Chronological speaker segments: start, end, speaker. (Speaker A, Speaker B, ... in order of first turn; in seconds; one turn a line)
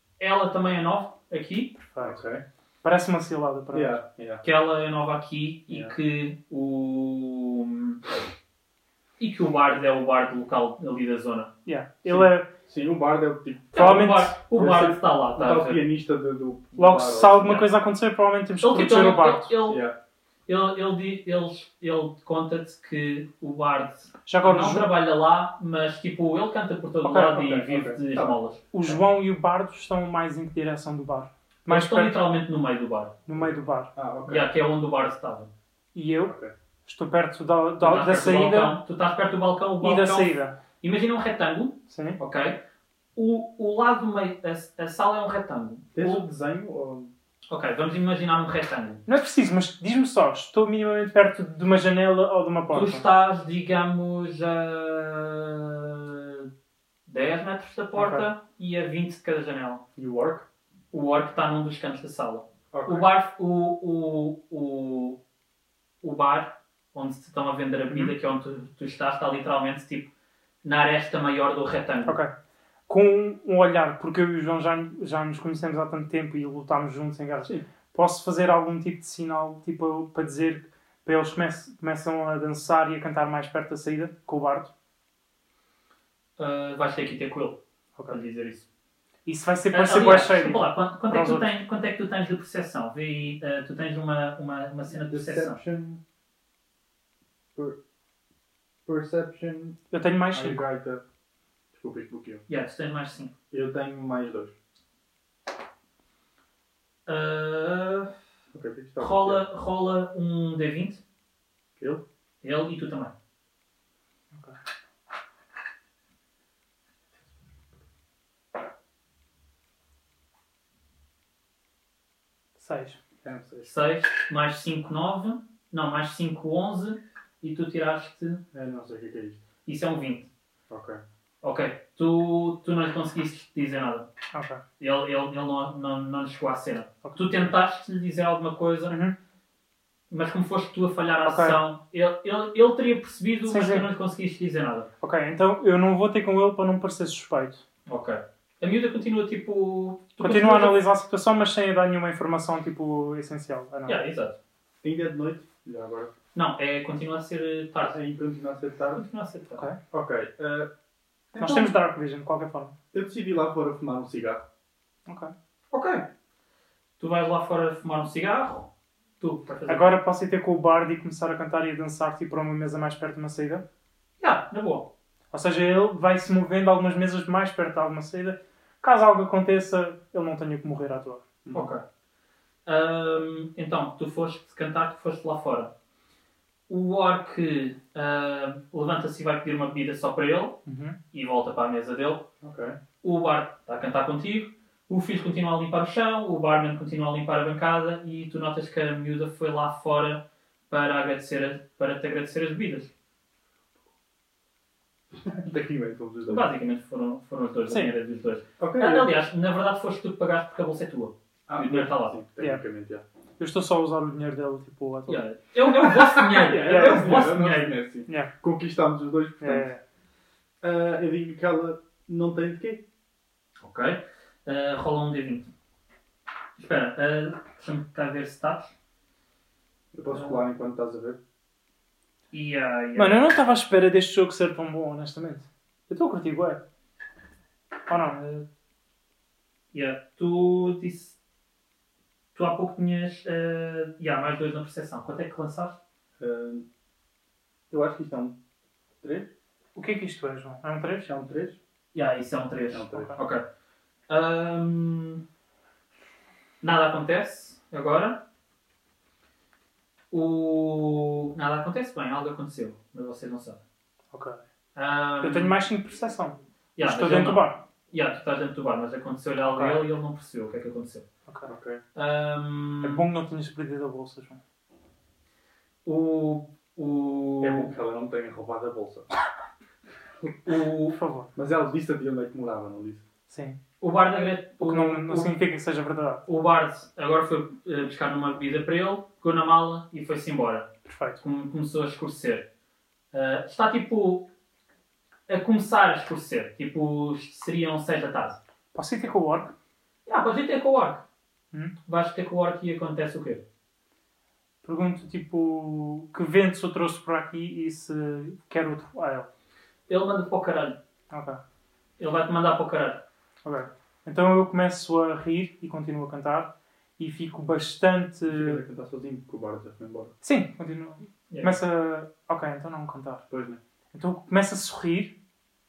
Speaker A: 0.2-1.7
Speaker B: 1.8-2.2
Speaker C: 2.0-2.4
Speaker B: 2.8-4.0
Speaker C: 3.7-4.4
Speaker A: 4.4-8.0
Speaker C: 5.7-5.9
Speaker A: 9.2-11.5
Speaker B: 11.7-12.5
Speaker C: 12.0-13.9
Speaker A: 13.7-15.8
Speaker B: 13.7-14.3
Speaker C: 14.5-17.6
Speaker B: 16.8-19.5
Speaker A: 17.4-17.7
Speaker A: 18.6-19.8
Speaker C: 19.6-19.9
Speaker A: 20.5-28.6
Speaker B: 24.2-24.9
Speaker B: 27.0-27.5
Speaker C: 27.3-29.0
Speaker B: 28.7-32.2
Speaker A: 31.7-33.1
Speaker B: 33.2-33.9
Speaker C: 33.4-34.5
Speaker A: 34.3-35.5
Speaker B: 35.9-36.3
Speaker C: 36.2-36.5
Speaker B: 36.9-38.8
Speaker A: 37.8-42.6
Speaker B: 39.8-40.5
Speaker B: 41.9-42.2
Speaker A: 43.1-46.2
Speaker C: 45.9-47.1
Speaker A: 47.5-49.0
Speaker B: 49.1-53.0
Speaker A: 52.7-56.5
Speaker A: 57.1-59.8
Speaker B: 58.0-58.2
Speaker C: 60.0-60.4
Speaker A: 60.9-65.2
Speaker C: 62.7-63.0
Speaker A: 66.0-70.1
Speaker A: 70.6-72.2
Speaker B: 72.0-72.3
Speaker B: 72.9-84.7
Speaker A: 86.4-88.7
Speaker B: 89.2-91.5
Speaker A: 89.7-95.6
Speaker C: 94.9-96.0
Speaker C: 98.8-99.8
Speaker B: 99.9-100.6
Speaker C: 100.3-101.0
Speaker C: 101.7-102.4
Speaker A: 102.5-103.3
Speaker C: 103.5-104.5
Speaker A: 107.0-108.1
Speaker C: 108.5-109.4
Speaker A: 109.0-111.0
Speaker A: 112.4-113.1
Speaker B: 122.6-123.0
Speaker C: 123.2-123.7
Speaker A: 123.6-128.4
Speaker C: 128.5-129.4
Speaker A: 129.7-130.3
Speaker C: 130.7-131.0
Speaker A: 131.4-134.1
Speaker B: 134.3-134.6
Speaker A: 134.8-138.9
Speaker B: 137.0-137.3
Speaker A: 140.1-144.9
Speaker B: 141.2-141.6
Speaker B: 143.4-143.9
Speaker B: 145.0-147.6
Speaker A: 147.9-150.8
Speaker B: 150.2-154.0
Speaker A: 153.8-154.4
Speaker C: 154.8-156.1
Speaker A: 156.3-157.9
Speaker C: 157.8-159.0
Speaker A: 158.9-159.6
Speaker C: 159.9-160.7
Speaker C: 161.3-161.8
Speaker B: 161.4-162.7
Speaker C: 162.9-164.4
Speaker B: 165.1-165.3
Speaker A: 165.7-166.1
Speaker A: 167.0-168.7
Speaker A: 169.2-169.9
Speaker B: 169.7-173.6
Speaker A: 174.2-174.9
Speaker B: 175.3-181.2
Speaker C: 181.4-181.7
Speaker A: 181.5-181.8
Speaker A: 182.7-185.7
Speaker A: 186.7-190.6
Speaker B: 190.7-190.9
Speaker A: 191.1-192.2
Speaker C: 192.4-192.8
Speaker A: 193.0-202.9
Speaker C: 205.2-206.4
Speaker A: 206.3-212.2
Speaker C: 208.6-209.1
Speaker C: 211.5-213.0
Speaker B: 213.4-215.2
Speaker A: 215.1-217.7
Speaker C: 215.9-219.7
Speaker B: 216.6-217.2
Speaker B: 219.4-219.8
Speaker C: 220.6-222.8
Speaker A: 223.6-225.5
Speaker A: 226.6-228.7
Speaker C: 229.9-231.2
Speaker A: 230.1-230.4
Speaker A: 232.3-233.4
Speaker B: 232.9-236.6
Speaker B: 237.9-238.2
Speaker A: 238.2-238.4
Speaker A: 239.7-241.2
Speaker A: 242.3-245.8
Speaker C: 246.2-246.7
Speaker C: 247.7-248.3
Speaker C: 249.0-249.3
Speaker B: 249.7-251.1
Speaker C: 251.1-251.6
Speaker A: 251.9-253.4
Speaker C: 252.7-253.1
Speaker A: 254.1-255.2
Speaker A: 256.6-258.2
Speaker A: 260.1-263.6
Speaker B: 264.1-264.4
Speaker A: 264.7-265.6
Speaker B: 265.2-267.6
Speaker A: 266.8-271.1
Speaker B: 269.4-269.8
Speaker C: 271.4-271.8
Speaker A: 271.9-273.0
Speaker B: 272.8-274.4
Speaker A: 275.8-277.7
Speaker C: 277.4-279.1
Speaker A: 280.4-280.9
Speaker B: 280.9-281.3
Speaker C: 281.3-283.0
Speaker B: 283.3-283.6
Speaker A: 283.8-285.3
Speaker B: 284.6-286.2
Speaker A: 286.2-290.7
Speaker B: 290.9-291.2
Speaker A: 291.2-292.4
Speaker A: 293.1-294.3
Speaker A: 295.3-298.4
Speaker B: 298.7-299.5
Speaker A: 300.1-301.0
Speaker A: 301.9-303.4
Speaker B: 304.6-309.3
Speaker A: 309.9-310.8
Speaker B: 311.1-311.4
Speaker A: 312.0-313.0
Speaker B: 313.4-318.6
Speaker C: 318.2-320.1
Speaker B: 320.2-323.2
Speaker A: 321.3-321.6
Speaker C: 323.3-323.6
Speaker B: 323.9-325.1